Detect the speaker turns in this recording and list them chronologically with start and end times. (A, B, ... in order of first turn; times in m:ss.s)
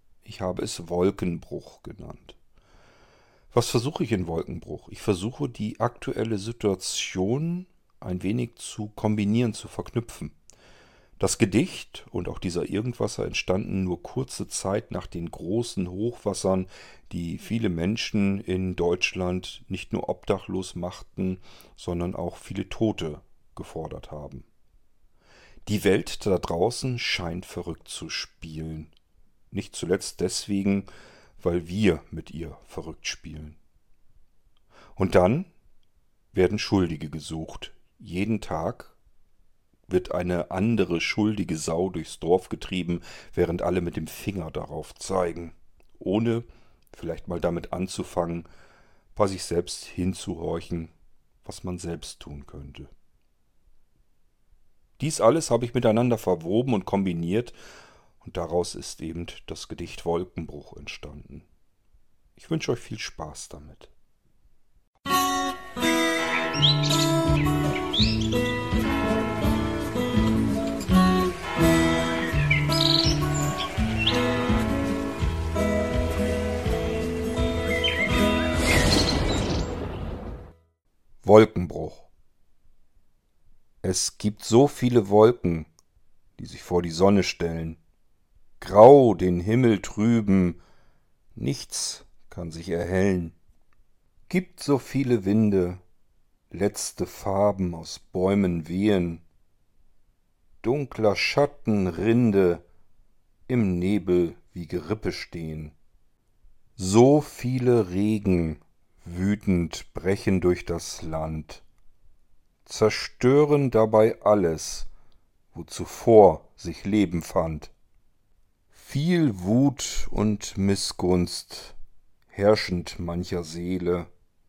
0:00.2-0:02.4 A
0:03.5-0:10.3 A
0:11.2-0:24.5 A
0:25.7-0:28.9 A
0:29.5-0:33.6 A
0:35.0-0:35.5 A
0:36.3-0:39.0 A
0:39.9-0:48.5 A
0:49.2-0:50.9 A
0:51.4-0:52.9 A
0:55.0-0:57.6 A
0:58.2-1:01.4 A
1:02.4-1:03.9 A
1:21.2-1:22.1 A
1:23.8-1:25.7 A
1:26.4-1:27.8 A
1:28.6-1:30.6 A
1:31.3-1:33.4 A
1:34.3-1:35.8 A
1:36.5-1:39.2 A
1:40.6-1:42.6 A
1:43.5-1:45.8 A
1:46.8-1:51.6 A
1:52.6-1:54.9 A
1:55.5-1:57.7 A
1:58.7-2:01.8 A
2:02.3-2:04.1 A